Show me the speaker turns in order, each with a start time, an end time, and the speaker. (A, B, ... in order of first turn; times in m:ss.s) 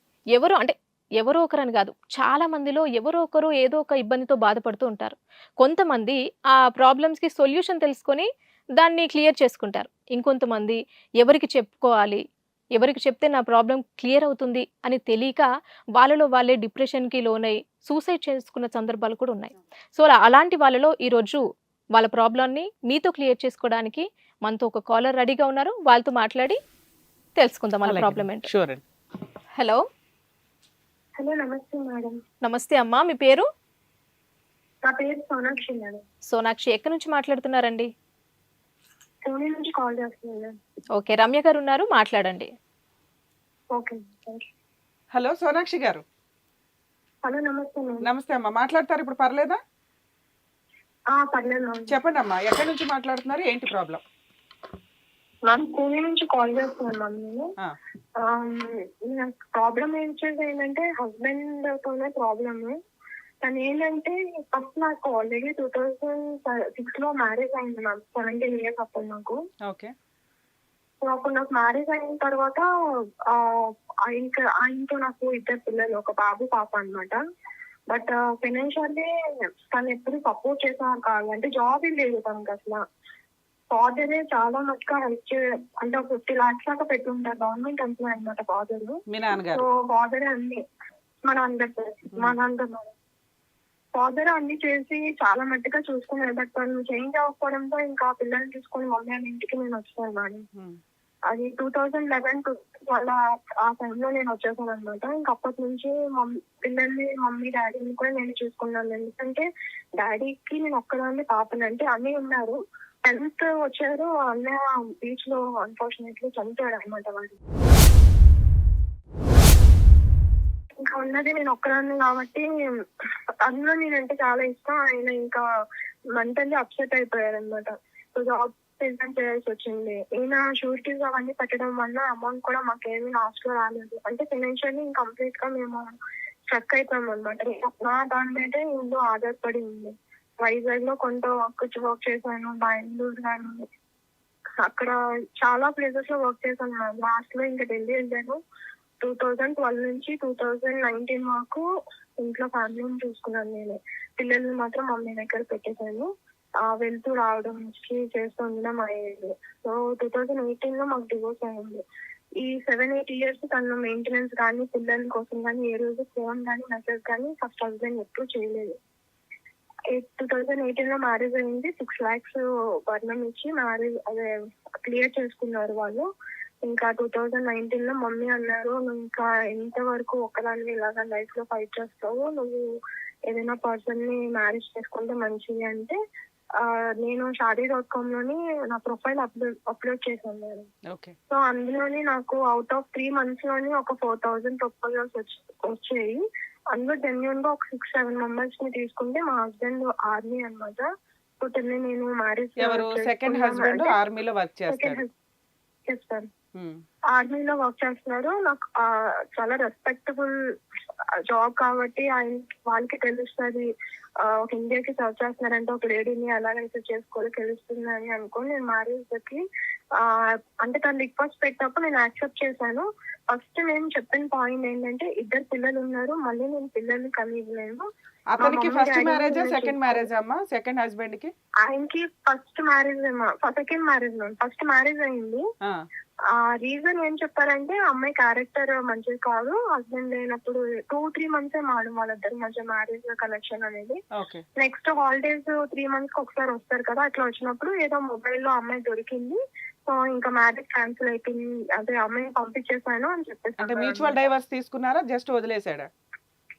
0:00.4-0:12.2 A
0:12.8-0:15.5 A
0:16.0-0:21.4 A
0:22.0-0:26.6 A
0:27.4-0:28.5 A
0:27.8-0:28.8 B
0:29.6-0:29.8 A
0:31.2-0:32.2 C
0:32.4-0:33.5 A
0:34.9-0:36.0 C
0:36.3-0:37.9 A
0:39.3-0:40.6 C
0:41.0-0:42.5 A
0:43.8-0:44.5 C
0:45.1-0:46.0 B
0:47.2-0:48.1 C
0:48.0-0:49.6 B
0:51.1-0:51.9 C
0:51.9-0:54.0 B
0:55.5-0:57.5 C
0:58.2-1:02.8 C
1:03.4-1:09.4 C
1:09.7-1:09.9 B
1:11.0-1:12.6 C
1:13.3-1:17.2 C
1:17.9-1:19.1 C
1:19.7-1:22.8 C
1:23.7-1:30.6 C
1:29.1-1:29.6 B
1:31.3-1:32.9 C
1:34.0-1:40.5 C
1:41.3-1:49.4 C
1:50.0-1:57.4 C
2:00.8-2:02.5 C
2:03.4-2:05.4 C
2:06.2-2:15.9 C
2:16.5-2:23.7 C
2:24.6-2:28.4 C
2:29.0-2:31.6 C
2:32.2-2:36.1 C
2:36.7-2:41.8 C
2:42.4-2:48.8 C
2:49.9-2:54.3 C
2:54.9-2:56.1 C
2:56.6-3:02.6 C
3:03.3-3:06.0 C
3:06.6-3:10.7 C
3:10.9-3:11.2 B
3:11.3-3:16.2 C
3:16.7-3:20.9 C
3:21.4-3:24.0 C
3:22.6-3:25.0 B
3:24.7-3:25.1 C
3:25.9-3:26.3 C
3:26.6-3:26.8 B
3:27.1-3:28.7 C
3:29.4-3:30.3 C
3:31.3-3:33.7 C
3:34.4-3:39.4 C
3:40.6-3:47.9 C
3:48.4-3:51.3 B
3:48.4-3:50.1 C
3:51.6-3:55.4 C
3:56.5-4:04.0 C
4:04.6-4:14.2 C
4:13.6-4:15.9 B